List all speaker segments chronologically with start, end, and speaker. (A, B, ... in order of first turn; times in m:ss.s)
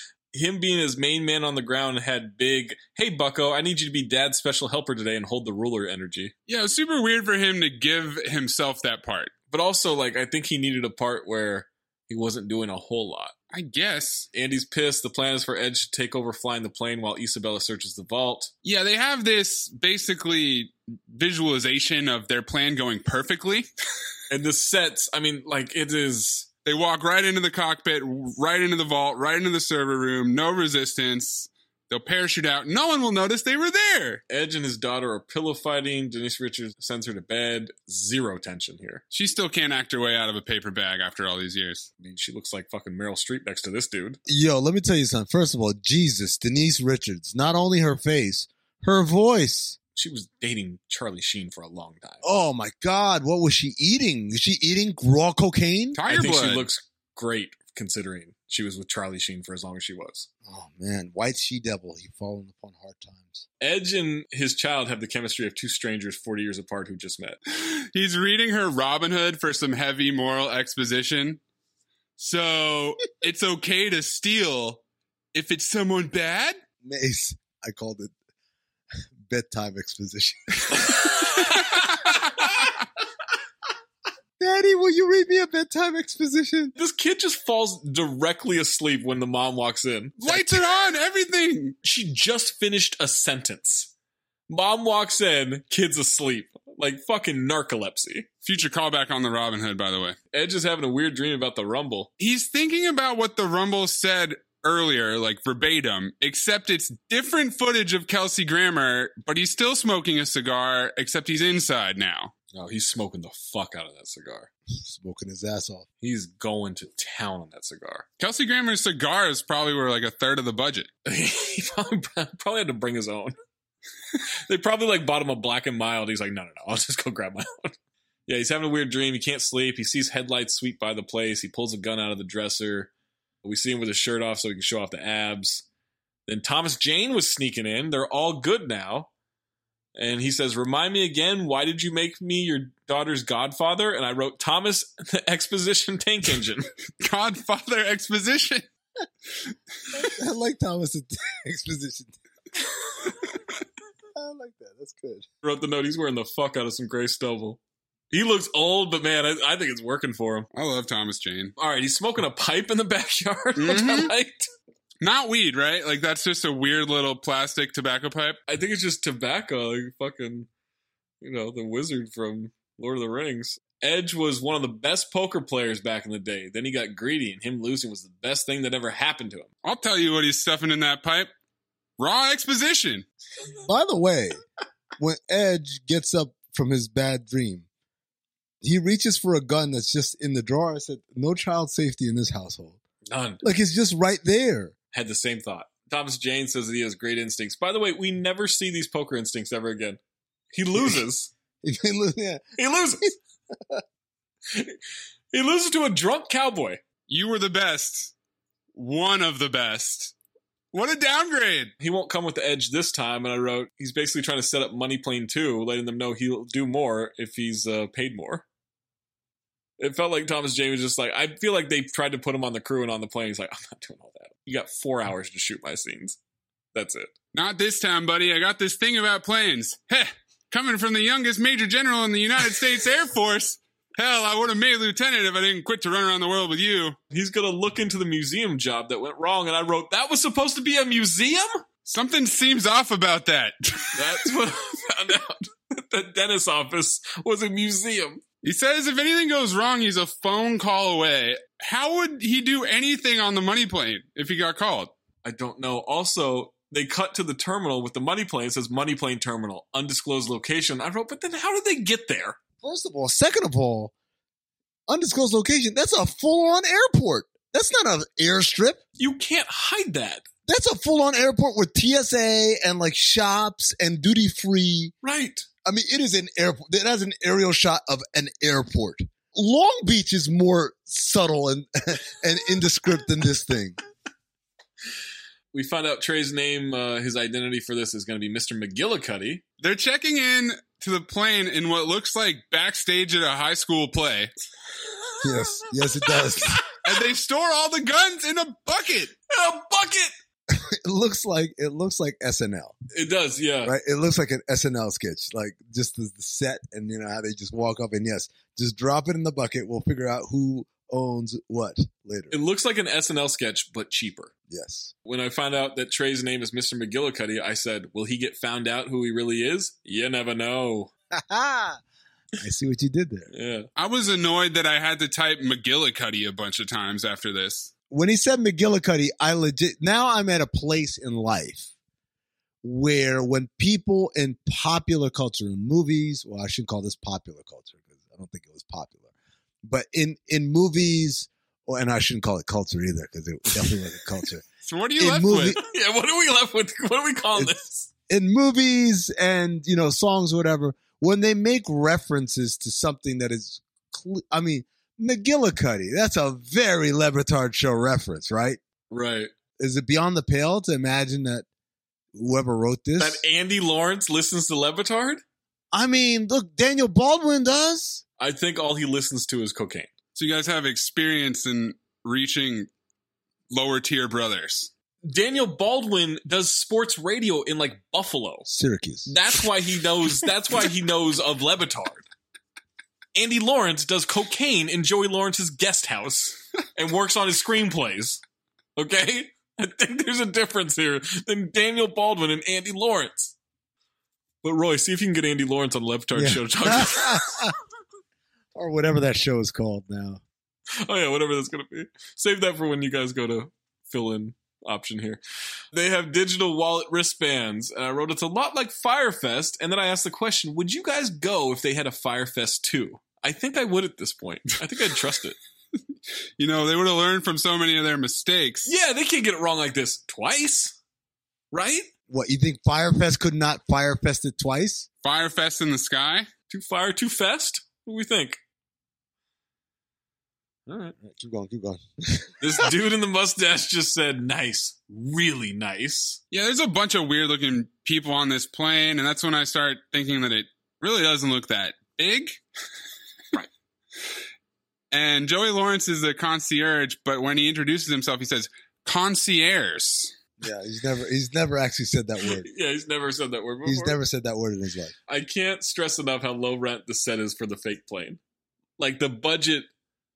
0:00.3-0:06.3 A
0:06.5-0:09.3 B
0:09.5-0:13.3 A
0:13.5-0:14.3 B
0:14.3-0:18.5 A
0:18.6-0:23.7 B
0:24.3-0:26.5 A
0:26.6-0:34.2 B
0:34.3-0:39.0 A
0:39.1-0:41.9 B
0:42.0-0:44.2 A
0:44.2-0:49.8 C
0:49.9-0:52.2 A
0:52.2-0:56.0 C
0:55.9-0:56.6 B
0:56.0-1:00.3 A
1:00.4-1:03.4 C
1:03.6-1:07.4 A
1:07.5-1:11.4 B
1:12.2-1:14.8 B
1:15.3-1:16.6 B
1:16.8-1:18.1 C
1:19.2-1:20.8 C
1:21.0-1:21.4 A
1:21.5-1:22.1 B
1:24.4-1:26.7 C
1:26.8-1:30.6 A
1:30.2-1:31.8 B
1:31.8-1:33.9 A
1:34.5-1:38.3 A
1:38.4-1:40.2 B
1:40.3-1:42.1 A
1:42.2-1:52.3 B
1:52.5-1:54.5 A
1:54.7-1:55.8 C
1:56.0-1:58.0 A
1:58.2-2:00.9 B
2:01.0-2:03.3 A
2:04.5-2:07.7 A
2:08.3-2:12.9 A
2:13.4-2:15.6 A
2:16.3-2:19.1 A
2:20.0-2:26.7 A
2:27.0-2:28.7 B
2:29.9-2:32.2 C
2:34.2-2:35.2 C
2:35.4-2:37.6 A
2:38.1-2:40.5 A
2:40.5-2:41.5 B
2:41.6-2:44.5 A
2:43.6-2:44.1 B
2:45.0-2:48.4 B
2:48.5-2:50.5 A
2:51.2-2:59.5 A
2:59.6-3:01.3 B
3:02.0-3:03.0 B
3:03.6-3:04.4 C
3:05.0-3:07.6 C
3:08.6-3:12.8 C
3:13.1-3:13.4 A
3:13.4-3:14.7 C
3:14.9-3:20.0 A
3:20.5-3:21.3 A
3:21.6-3:22.4 C
3:22.6-3:23.1 A
3:25.3-3:26.8 A
3:27.1-3:28.1 B
3:28.7-3:30.1 B
3:30.7-3:31.7 B
3:31.8-3:38.4 A
3:39.8-3:46.2 A
3:46.7-3:47.1 A
3:47.3-3:57.0 B
3:57.1-4:01.6 A
4:01.8-4:04.0 B
4:04.0-4:08.2 A
4:08.4-4:14.9 B
4:15.2-4:22.4 A
4:22.6-4:23.9 C
4:24.9-4:28.8 C
4:29.0-4:30.2 A
4:30.5-4:34.9 C
4:35.0-4:35.4 A
4:35.6-4:43.8 C
4:45.5-4:49.4 A
4:49.6-4:54.3 B
4:55.2-4:56.6 C
4:56.8-4:59.1 B
4:59.3-5:00.1 A
5:00.5-5:02.7 C
5:02.9-5:03.7 A
5:03.6-5:12.4 C
5:12.3-5:14.3 A
5:14.5-5:14.9 C
5:15.0-5:20.9 A
5:21.1-5:21.8 C
5:22.4-5:23.3 C
5:23.3-5:23.7 A
5:23.8-5:27.7 B
5:27.9-5:31.7 C
5:32.6-5:39.1 C
5:39.6-5:44.4 C
5:44.6-5:45.6 B
5:45.0-5:45.6 C
5:45.6-5:47.9 A
5:48.1-5:58.6 C
5:58.9-5:59.3 A
5:59.6-6:01.4 C
6:02.1-6:03.2 C
6:03.0-6:05.2 A
6:05.7-6:08.0 C
6:08.2-6:09.9 A
6:10.1-6:12.7 B
6:13.5-6:14.7 B
6:15.0-6:18.5 A
6:18.5-6:19.1 C
6:19.0-6:22.0 A
6:23.1-6:28.2 A
6:28.8-6:33.3 A
6:34.4-6:37.2 A
6:36.1-6:37.5 C
6:38.5-6:40.2 C
6:40.8-6:45.2 A
6:45.7-6:55.4 A
6:56.4-6:58.7 B
6:58.6-7:00.8 A
7:01.5-7:01.9 A
7:02.1-7:04.9 C
7:05.0-7:06.3 B
7:06.5-7:08.4 A
7:10.7-7:11.0 A
7:11.0-7:12.3 C
7:12.4-7:16.2 A
7:16.3-7:22.4 B
7:24.9-7:30.1 B
7:30.4-7:32.4 C
7:32.4-7:34.0 A
7:33.6-7:34.9 C
7:35.1-7:38.2 A
7:38.8-7:39.7 A